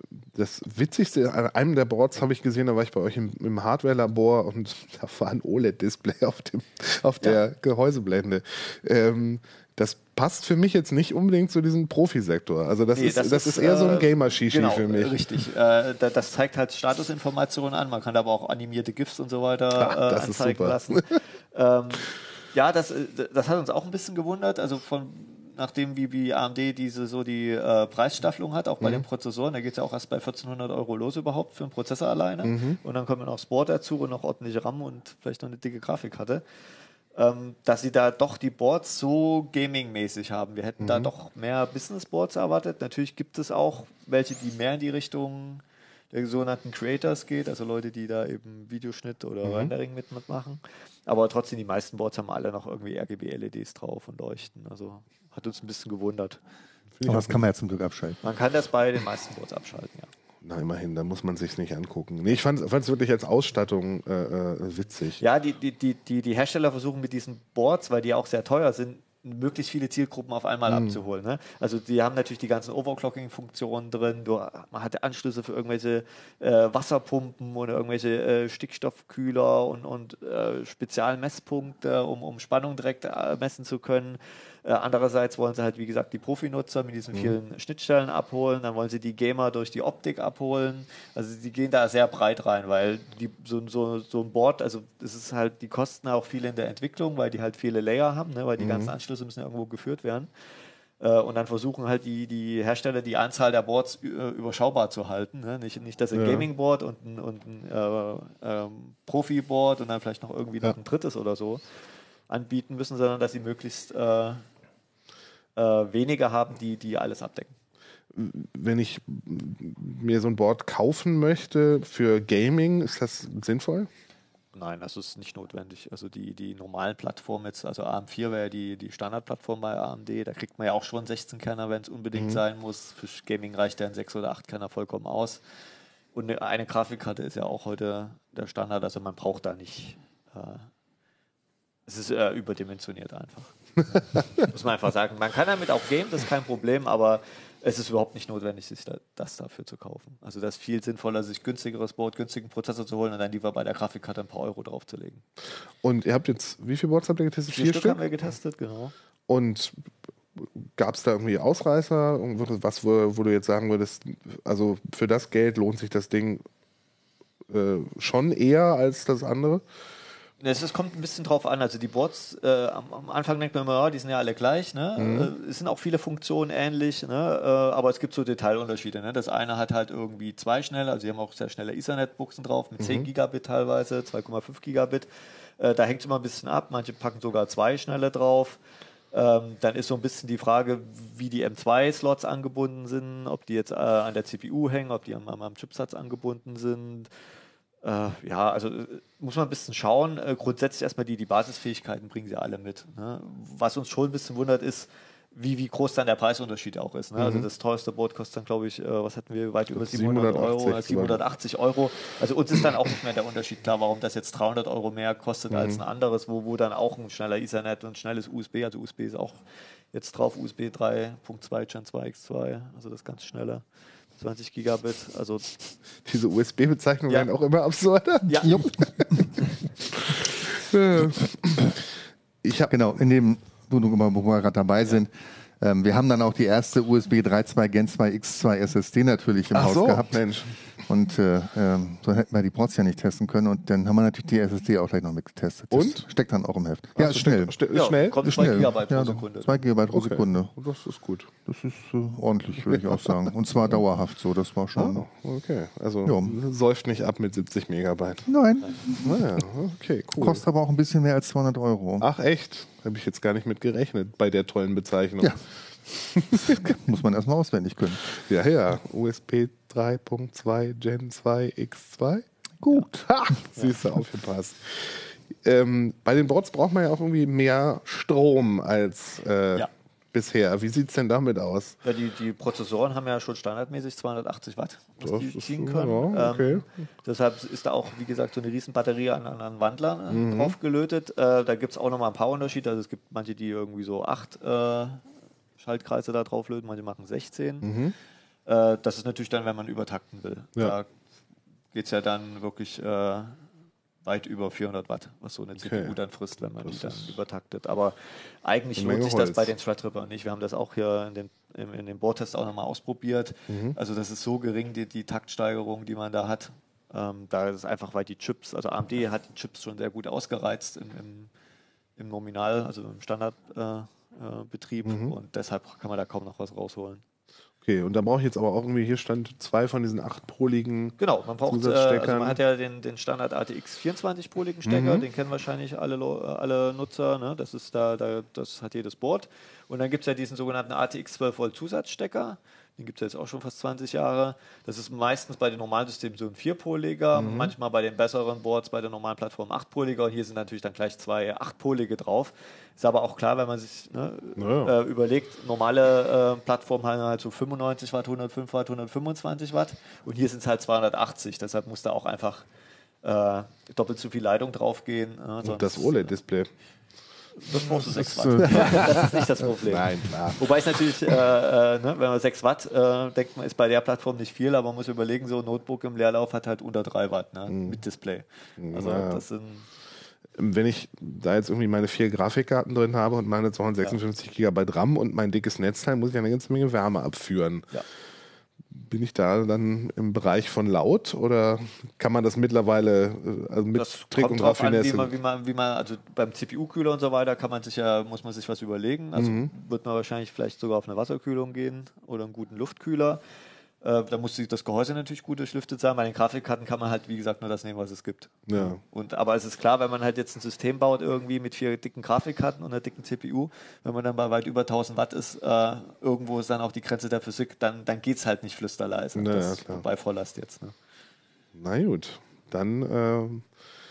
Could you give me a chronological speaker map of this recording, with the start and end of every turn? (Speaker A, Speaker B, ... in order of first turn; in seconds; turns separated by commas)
Speaker A: 0.3-15.4, Speaker B: 12.9-36.4, Speaker A: 19.7-21.2, Speaker A: 32.4-32.8, Speaker B: 37.1-56.4, Speaker A: 40.8-41.1, Speaker A: 49.4-49.7, Speaker A: 56.9-57.5, Speaker C: 57.0-58.2, Speaker B: 58.2-60.1, Speaker A: 60.4-65.2, Speaker B: 65.2-100.3, Speaker A: 70.7-71.0, Speaker A: 98.6-98.9, Speaker B: 101.0-111.6, Speaker A: 106.1-106.5, Speaker B: 112.3-114.5, Speaker B: 115.5-117.5, Speaker A: 118.1-123.9, Speaker B: 124.5-135.4, Speaker A: 132.2-132.4, Speaker B: 136.1-140.7, Speaker B: 141.9-155.2, Speaker A: 155.8-158.0, Speaker B: 157.5-158.9, Speaker A: 159.3-159.7, Speaker A: 160.3-166.4, Speaker A: 167.5-169.6, Speaker B: 170.4-188.6, Speaker A: 174.9-175.3, Speaker A: 182.8-183.1, Speaker B: 189.1-197.1, Speaker B: 197.8-219.4, Speaker A: 207.2-207.5, Speaker A: 209.7-211.2, Speaker A: 215.5-215.8, Speaker B: 219.9-223.6, Speaker B: 224.2-225.6, Speaker A: 226.0-229.3, Speaker B: 228.2-228.7, Speaker C: 228.4-229.2, Speaker A: 229.8-231.8, Speaker A: 232.4-232.7, Speaker C: 232.7-240.2, Speaker A: 239.5-240.5, Speaker C: 240.9-247.5, Speaker A: 245.7-246.0, Speaker A: 246.9-248.7, Speaker B: 247.7-249.6, Speaker C: 248.2-250.5, Speaker A: 249.9-251.3, Speaker C: 251.4-255.1, Speaker A: 252.7-253.1, Speaker A: 254.7-258.3, Speaker C: 256.0-256.4, Speaker C: 258.3-259.3, Speaker A: 259.0-260.4, Speaker C: 260.2-262.1, Speaker A: 262.0-266.7, Speaker C: 266.3-268.0, Speaker A: 268.1-281.8, Speaker C: 272.6-272.9, Speaker B: 281.8-295.0, Speaker A: 285.0-286.6, Speaker A: 290.1-290.5, Speaker B: 295.6-297.7, Speaker A: 297.6-297.9, Speaker B: 298.4-300.9, Speaker B: 301.7-303.4, Speaker B: 304.0-321.3, Speaker A: 305.6-305.9, Speaker A: 306.6-307.2, Speaker A: 308.8-309.5, Speaker A: 313.5-313.8, Speaker B: 322.0-327.0, Speaker A: 324.8-325.1, Speaker A: 327.6-332.4, Speaker B: 331.0-362.4, Speaker A: 334.6-335.0, Speaker A: 347.1-347.5, Speaker A: 354.4-354.7, Speaker B: 363.0-366.1, Speaker A: 365.4-366.5, Speaker B: 367.4-379.7, Speaker C: 367.5-369.0, Speaker A: 368.4-370.5, Speaker A: 377.5-377.8, Speaker A: 378.6-379.2, Speaker A: 380.3-387.7, Speaker A: 388.7-395.1, Speaker B: 393.7-403.2, Speaker A: 399.1-399.5, Speaker B: 403.8-420.8, Speaker A: 408.5-408.8, Speaker A: 419.1-419.8, Speaker A: 421.5-423.4